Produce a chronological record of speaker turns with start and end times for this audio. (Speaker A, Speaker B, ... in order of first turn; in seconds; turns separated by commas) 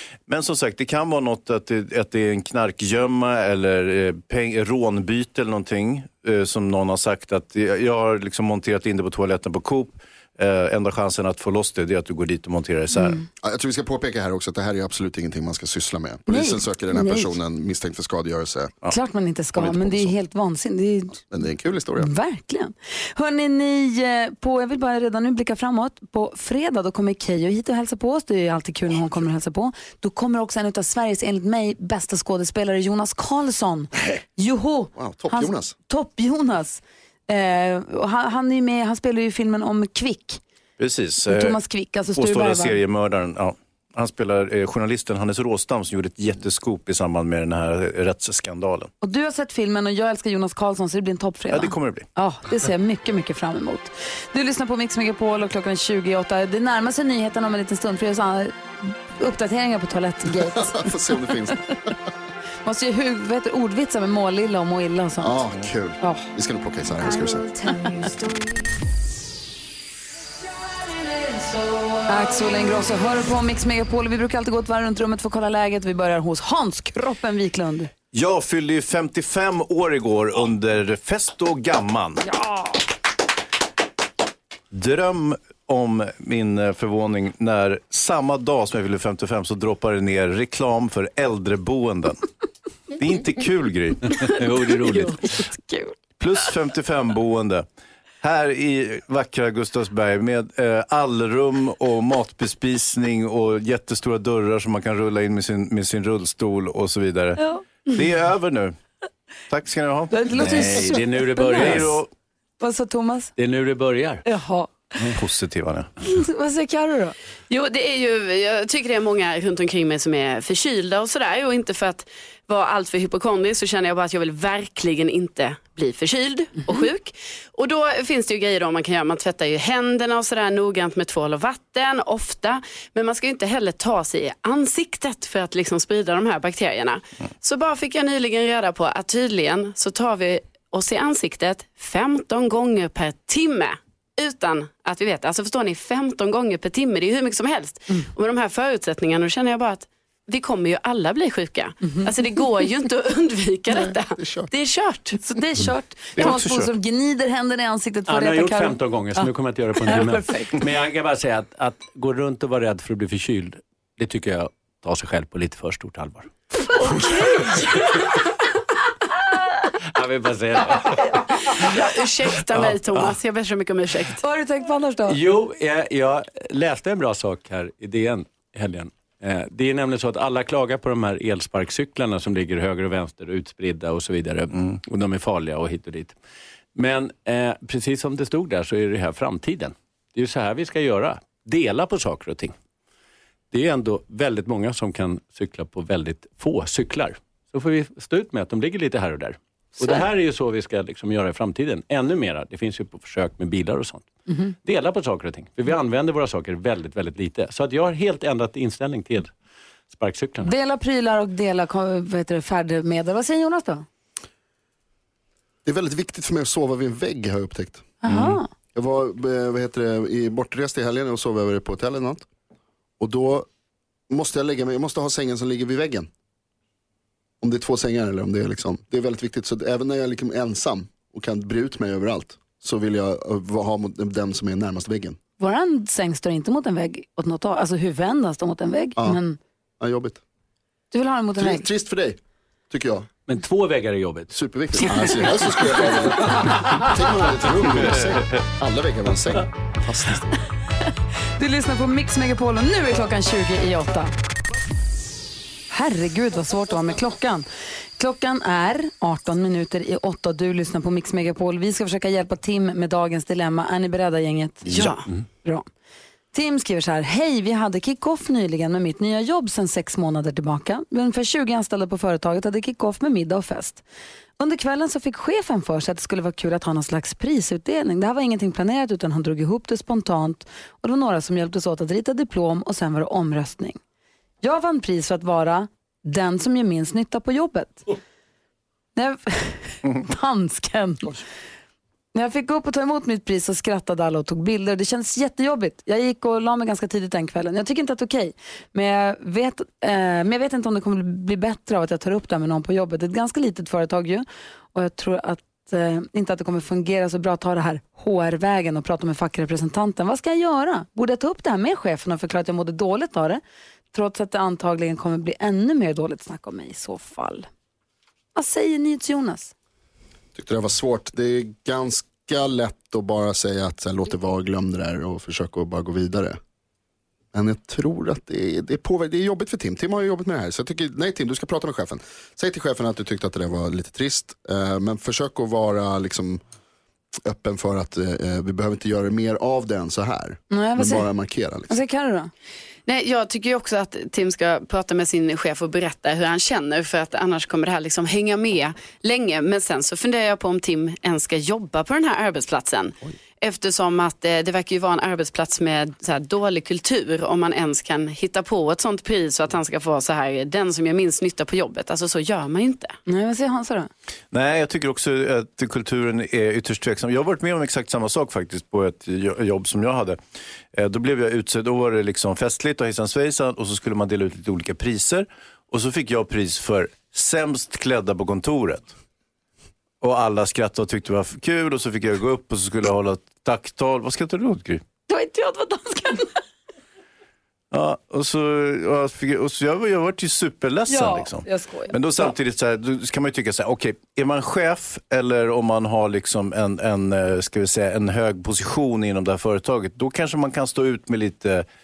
Speaker A: 0.2-13.2, Speaker B: 13.4-18.8, Speaker C: 16.3-17.4, Speaker C: 18.9-21.2, Speaker B: 19.6-20.1, Speaker B: 21.3-22.1, Speaker C: 22.0-40.4, Speaker B: 35.0-35.7, Speaker A: 40.8-41.6, Speaker C: 41.2-42.8, Speaker A: 42.1-48.9, Speaker C: 49.0-60.9, Speaker A: 51.5-52.0, Speaker B: 60.4-61.9, Speaker C: 62.6-65.4, Speaker B: 65.2-67.5, Speaker C: 66.0-66.3, Speaker C: 67.7-68.3, Speaker C: 72.0-77.9, Speaker A: 78.1-82.2, Speaker C: 82.3-82.7, Speaker A: 84.7-92.2, Speaker A: 93.0-95.5, Speaker C: 94.2-95.9, Speaker D: 94.7-95.1, Speaker A: 96.2-97.7, Speaker A: 98.2-108.8, Speaker A: 109.5-112.1, Speaker C: 110.1-112.0, Speaker D: 110.5-112.0, Speaker C: 112.6-113.3, Speaker D: 113.4-114.2, Speaker C: 114.2-114.7, Speaker A: 115.0-115.9, Speaker C: 116.0-117.1, Speaker E: 117.5-155.2, Speaker B: 153.7-154.5, Speaker C: 155.2-159.3, Speaker A: 156.2-156.7, Speaker D: 158.1-166.3, Speaker C: 159.8-160.6, Speaker C: 166.7-167.8, Speaker E: 166.9-167.7, Speaker D: 169.9-171.0, Speaker E: 171.5-174.2, Speaker C: 174.2-175.2, Speaker D: 175.1-186.1, Speaker D: 186.7-192.5, Speaker D: 193.5-209.3, Speaker D: 209.9-210.5, Speaker C: 210.4-213.8, Speaker B: 215.6-217.9, Speaker C: 218.0-218.5, Speaker A: 218.1-218.4, Speaker B: 218.7-222.2, Speaker B: 223.0-223.5, Speaker B: 224.1-226.1, Speaker B: 227.4-235.2, Speaker C: 235.4-239.4, Speaker B: 239.8-240.2, Speaker C: 240.9-241.7, Speaker B: 241.4-243.1, Speaker D: 243.3-245.0, Speaker B: 244.3-250.3, Speaker A: 247.8-248.3, Speaker C: 251.4-254.1, Speaker C: 255.7-257.4, Speaker C: 258.0-264.7, Speaker E: 264.6-265.0, Speaker C: 266.3-273.8, Speaker C: 274.4-283.8, Speaker C: 284.4-287.9, Speaker C: 288.9-291.2, Speaker C: 292.1-313.4, Speaker C: 313.9-317.5, Speaker C: 318.3-319.5, Speaker B: 320.3-326.4, Speaker B: 327.3-336.4, Speaker B: 337.2-341.8, Speaker C: 340.5-341.1, Speaker C: 341.7-342.3, Speaker E: 342.9-362.9, Speaker C: 363.1-363.9, Speaker A: 364.3-370.2, Speaker A: 370.7-378.9, Speaker A: 380.0-384.8, Speaker C: 385.1-386.4, Speaker A: 387.7-401.6, Speaker C: 390.9-392.3